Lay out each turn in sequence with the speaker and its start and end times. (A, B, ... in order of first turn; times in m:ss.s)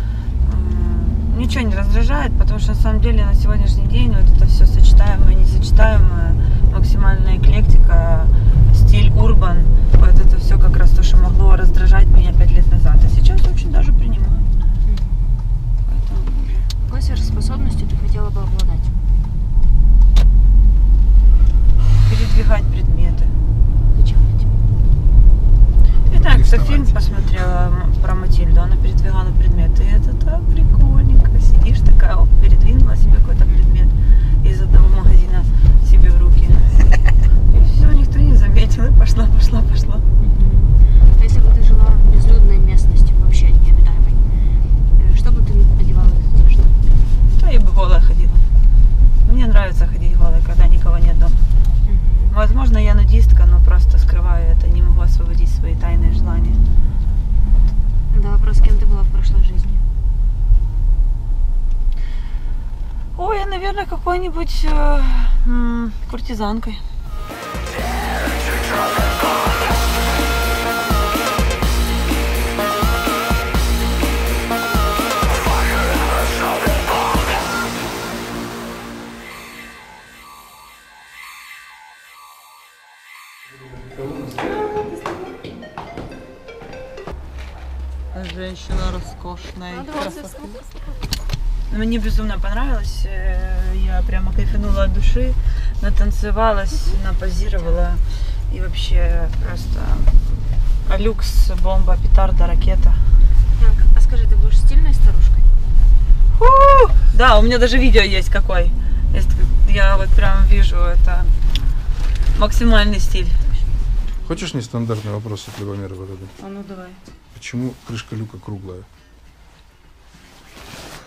0:00.4-0:14.5 A
0:14.8-0:15.4 B
0:15.8-0:16.7 A
0:16.8-0:19.0 B
0:22.0-0:23.3 A
0:23.9-0:24.5 B
0:26.1-0:36.8 A
0:26.6-0:26.8 C
0:37.5-0:40.0 A
0:40.2-0:44.2 B
0:45.0-0:46.8 B
0:47.3-0:48.5 A
0:49.2-0:51.4 A
0:51.8-0:52.4 B
0:52.3-0:56.6 A
0:58.1-0:59.8 B
1:03.2-1:06.8 A
1:28.1-1:30.4 A
1:29.7-1:30.7 B
1:31.7-1:43.0 A
1:37.6-1:37.8 B
1:40.9-1:41.2 B
1:43.6-1:45.5 B
1:46.3-1:51.4 A
1:52.4-1:53.4 A
1:53.4-1:53.7 B
1:54.2-1:56.3 C
1:56.4-1:57.0 A
1:57.3-1:58.9 C